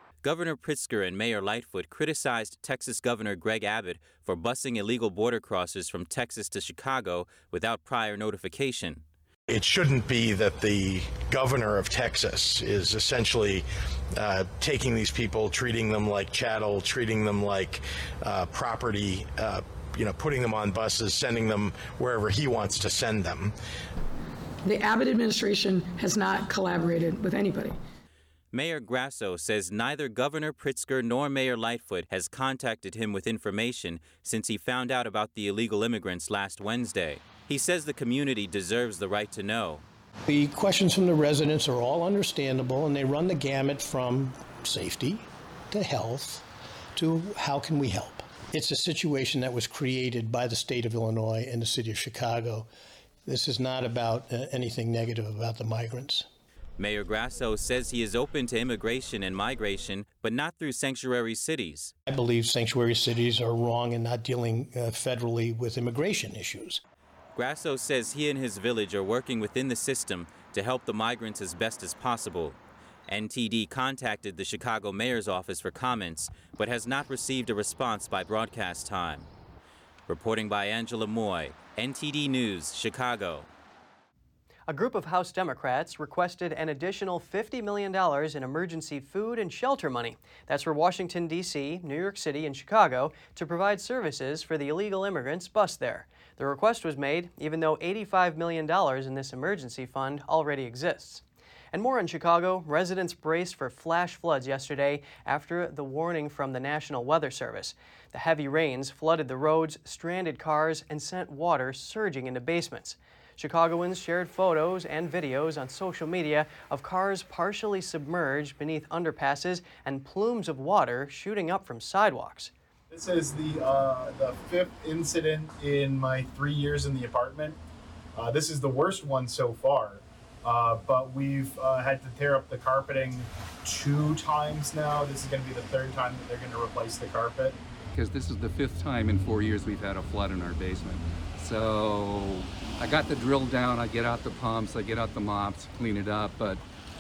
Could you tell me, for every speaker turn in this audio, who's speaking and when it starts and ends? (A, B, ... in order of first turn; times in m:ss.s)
0:00.2-0:09.0 A
0:09.5-0:23.5 B
0:24.7-0:27.7 C
0:28.5-0:39.8 A
0:40.3-0:52.7 D
0:53.3-0:56.3 D
0:56.8-1:01.9 A
1:02.1-1:06.8 D
1:07.4-1:19.3 A
1:20.1-1:23.5 A
1:24.7-1:41.2 E
1:41.7-2:02.5 E
2:02.9-2:07.6 F
2:08.2-2:17.6 F
2:17.9-2:26.6 G